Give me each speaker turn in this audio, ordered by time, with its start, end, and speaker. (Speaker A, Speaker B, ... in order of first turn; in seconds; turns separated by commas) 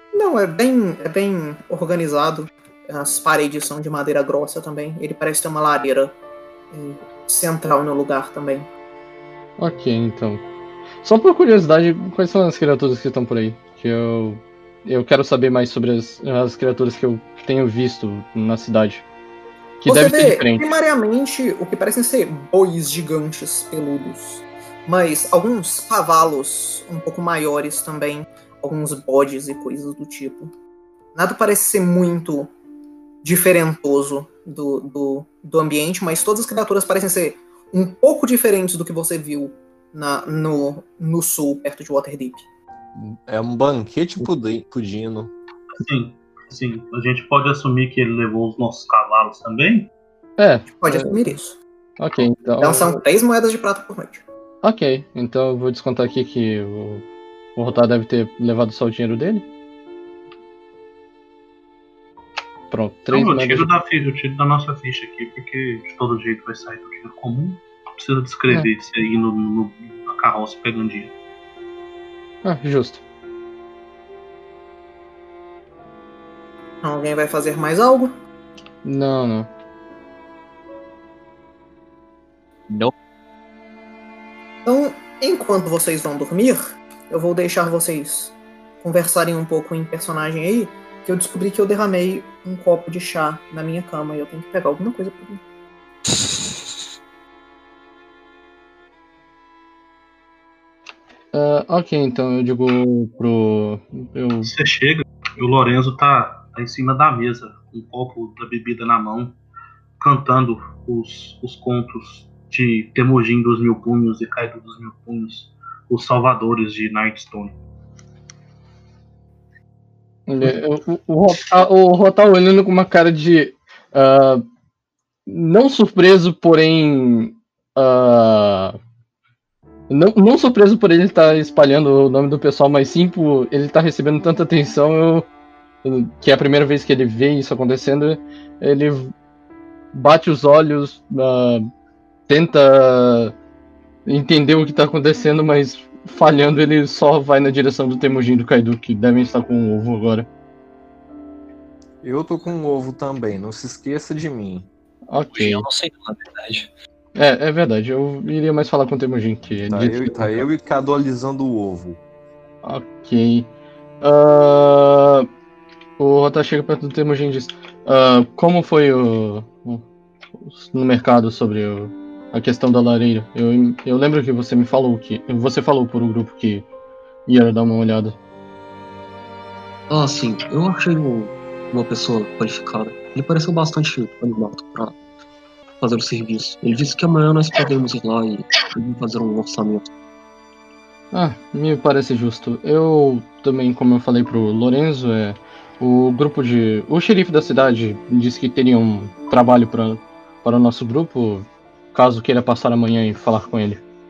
Speaker A: 0.1-6.1, Speaker A: 6.7-8.7, Speaker B: 9.6-10.4, Speaker B: 11.0-19.0, Speaker B: 19.8-20.7, Speaker A: 19.9-30.5, Speaker A: 31.1-32.5, Speaker A: 33.2-42.4, Speaker C: 43.3-45.3, Speaker D: 45.8-49.9, Speaker B: 50.4-51.4, Speaker A: 50.8-51.6, Speaker B: 52.0-53.0, Speaker A: 52.6-54.2, Speaker B: 54.6-59.5, Speaker B: 62.7-63.7, Speaker D: 63.1-71.1, Speaker B: 72.4-73.0, Speaker A: 76.8-78.1, Speaker B: 78.8-79.5, Speaker A: 84.6-95.4, Speaker E: 96.1-96.8, Speaker B: 101.3-104.5, Speaker D: 104.5-109.3, Speaker D: 110.0-117.5, Speaker B: 120.3-124.4, Speaker B: 125.3-128.8, Speaker B: 129.9-135.2, Speaker B: 135.8-139.1, Speaker B: 139.9-141.7, Speaker B: 142.3-143.3, Speaker B: 144.1-150.3, Speaker C: 152.0-154.7, Speaker B: 155.1-155.6, Speaker E: 155.3-156.7, Speaker B: 157.2-160.5, Speaker C: 159.7-162.0, Speaker B: 162.6-163.5, Speaker B: 164.0-165.3, Speaker B: 166.0-169.8, Speaker B: 170.5-176.7, Speaker B: 177.3-178.2, Speaker F: 179.9-184.9, Speaker F: 185.8-189.8, Speaker B: 191.1-203.8